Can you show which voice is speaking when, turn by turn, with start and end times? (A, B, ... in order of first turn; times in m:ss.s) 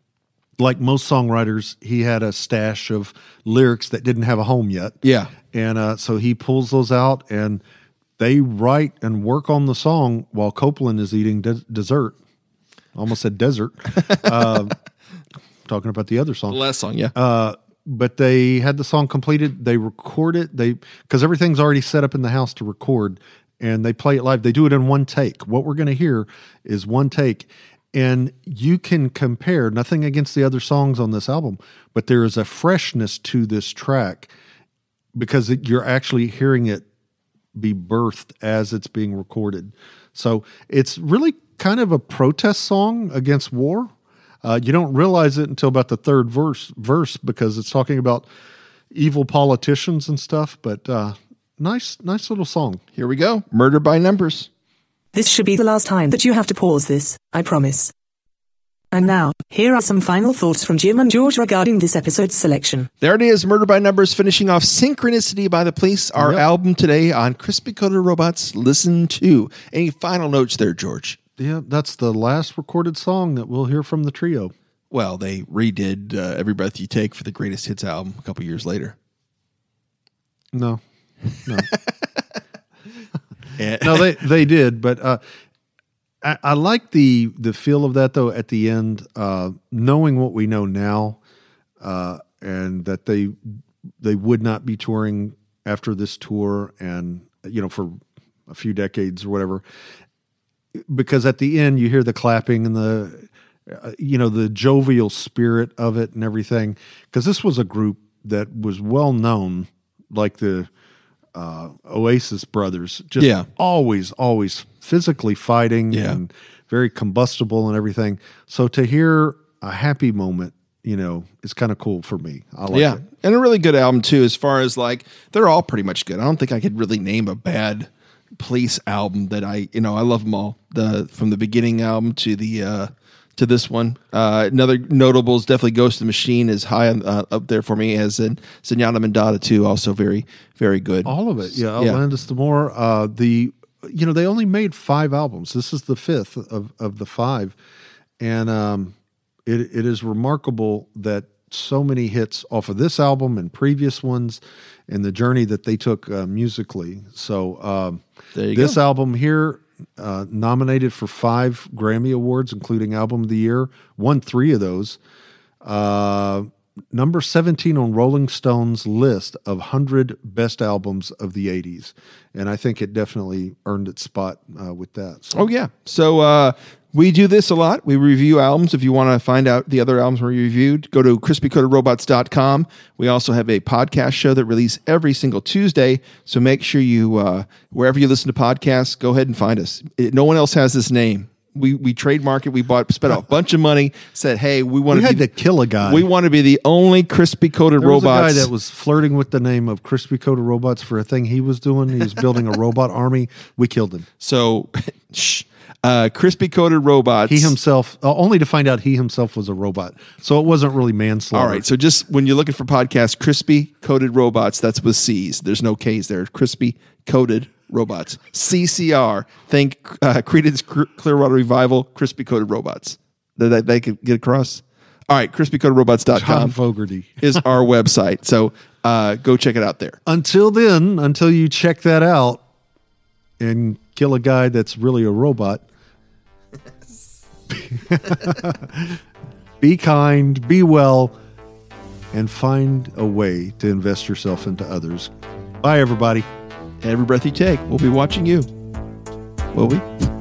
0:00.6-0:05.0 A
0:05.0-0:05.3 B
0:05.5-0:07.6 A
0:08.2-0:12.2 A
0:12.9-0:14.8 A
0:14.0-0:14.6 B
0:15.6-0:16.6 A
0:16.5-0:17.1 B
0:17.1-0:34.3 A
0:35.1-0:36.8 A
0:37.5-0:43.9 A
0:44.4-0:48.3 A
0:48.9-0:52.8 A
0:53.0-0:54.5 B
0:55.1-0:57.9 C
0:58.9-1:02.9 C
1:03.0-1:11.2 B
1:06.2-1:06.4 A
1:11.4-1:14.5 A
1:14.9-1:18.9 B
1:20.5-1:20.8 A
1:21.5-1:21.9 B
1:23.6-1:24.2 B
1:23.8-1:25.2 A
1:26.2-1:31.2 A
1:31.8-1:33.4 A
1:34.0-1:39.6 A
1:40.7-1:50.7 A
1:51.3-2:03.0 A
1:53.2-1:53.5 B
1:55.9-1:56.2 B
2:02.7-2:21.1 B
2:21.0-2:27.5 A
2:28.2-2:28.9 A
2:29.4-2:38.0 A
2:38.3-2:38.8 B
2:38.5-2:45.0 A
2:45.6-2:55.4 A
2:55.3-3:15.3 B
3:14.9-3:16.1 A
3:15.8-3:18.5 B
3:17.8-3:24.1 A
3:24.2-3:27.5 B
3:27.3-3:31.6 A
3:31.3-3:46.5 B
3:46.1-3:47.4 A
3:47.2-3:50.0 B
3:50.0-3:52.4 A
3:53.4-3:55.6 A
3:57.5-3:59.0 A
3:59.6-4:01.2 A
4:02.1-4:06.2 A
4:06.8-4:08.5 B
4:09.5-4:09.9 B